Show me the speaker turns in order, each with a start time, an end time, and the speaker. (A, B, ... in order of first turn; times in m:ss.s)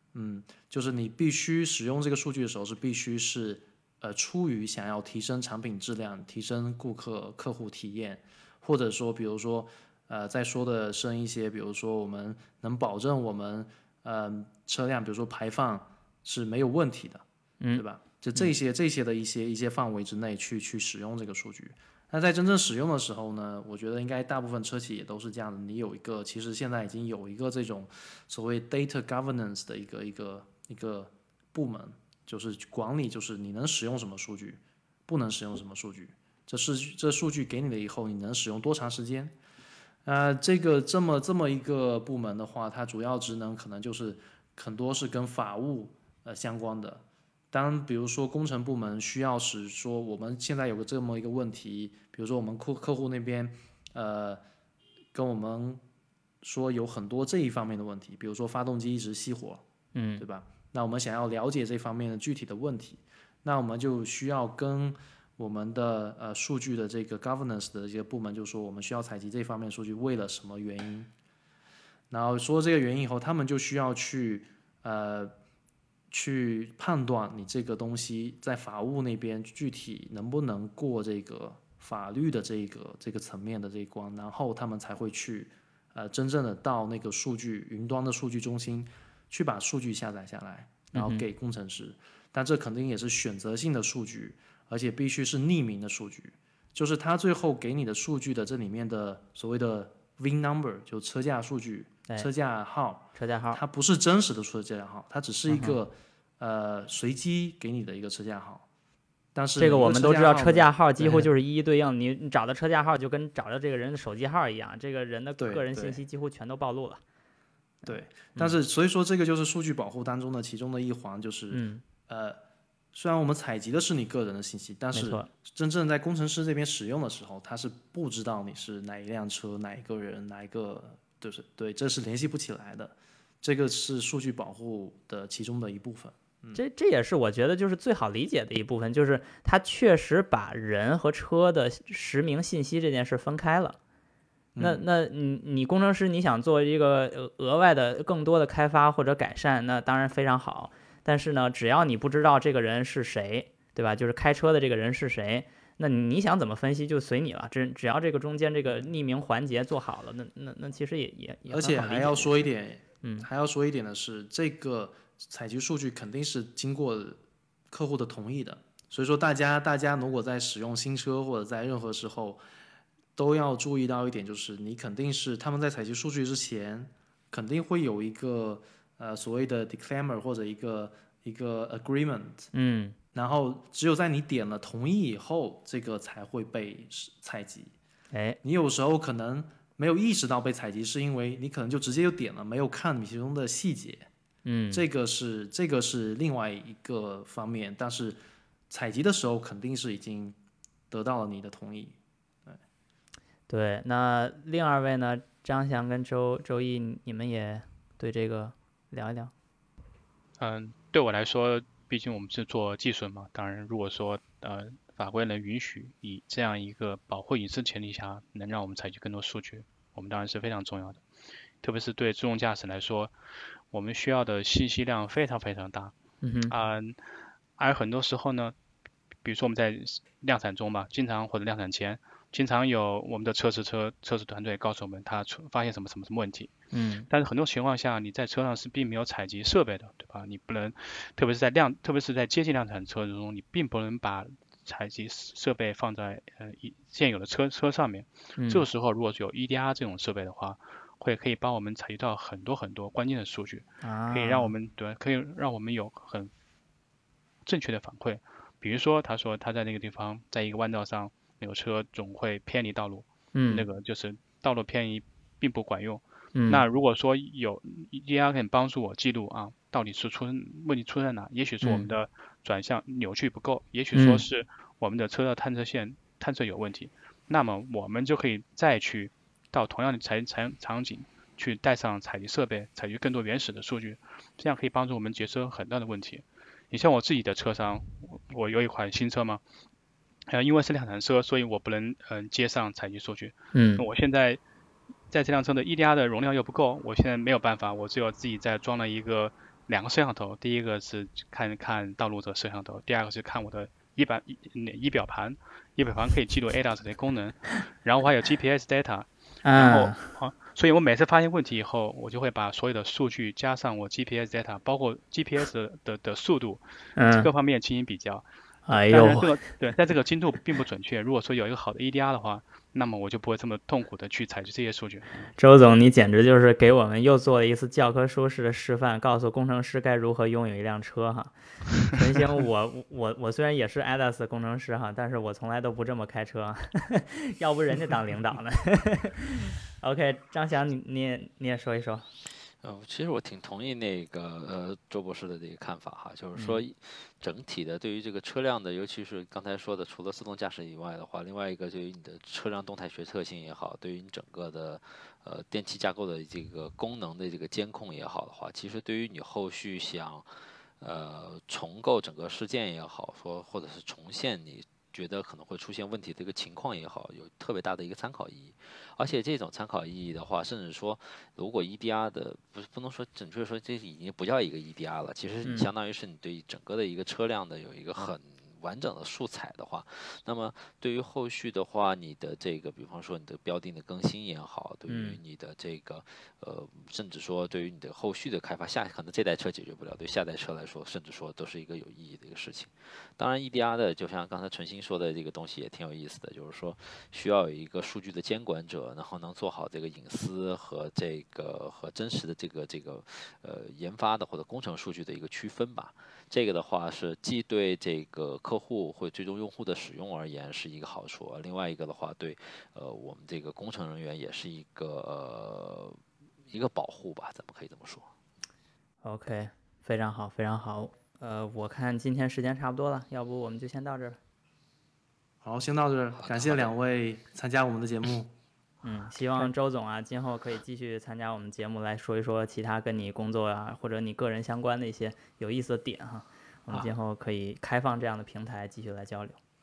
0:00.1-0:39.4 A
0:40.0-0:54.4 A
0:55.1-0:55.8 A
0:56.4-0:59.6 A
0:59.9-1:00.2 B
1:00.2-1:11.1 A
1:12.1-1:15.3 A
1:16.1-1:48.6 A
1:30.9-1:31.2 B
1:43.1-1:43.6 B
1:45.5-1:45.8 B
1:49.3-1:51.3 A
1:49.6-1:57.0 B
1:55.4-1:56.0 A
1:57.8-2:02.4 A
2:01.5-2:01.8 B
2:02.9-2:16.6 A
2:04.9-2:05.3 B
2:16.5-2:23.8 B
2:24.5-2:24.8 A
2:24.6-2:42.4 B
2:41.5-2:47.2 A
2:43.0-2:43.3 B
2:47.7-2:52.4 A
2:53.2-3:02.5 A
3:02.5-3:03.0 B
3:03.1-3:07.7 A
3:08.1-3:08.4 B
3:08.4-3:14.1 A
3:14.4-3:14.8 B
3:14.7-3:18.2 A
3:18.7-3:20.4 A
3:20.9-3:22.6 A
3:23.5-3:29.3 B
3:30.4-3:41.0 C
3:41.6-3:43.1 C
3:43.7-3:45.9 C
3:46.2-3:46.5 B
3:46.5-3:47.0 C
3:47.6-3:48.5 C
3:49.2-3:56.5 C
3:56.7-3:57.1 B
3:57.1-4:16.3 C
4:08.4-4:08.6 B
4:13.8-4:14.5 B
4:17.4-4:49.4 C
4:23.3-4:23.6 B
4:26.3-4:26.6 B
4:31.6-4:31.9 B
4:33.9-4:34.2 B
4:50.3-4:54.4 C
4:53.5-4:53.8 B
4:55.1-5:18.3 C
5:09.4-5:10.1 B
5:17.0-5:17.3 B
5:18.7-5:19.3 B
5:18.9-5:25.3 C
5:25.4-5:42.1 B
5:42.6-6:00.3 D
5:46.4-5:46.6 B
6:00.8-6:58.1 D
6:15.4-6:15.7 B
6:24.9-6:25.2 B
6:59.0-7:04.2 B
7:05.4-7:08.3 A
7:06.1-7:06.7 D
7:08.8-7:19.4 B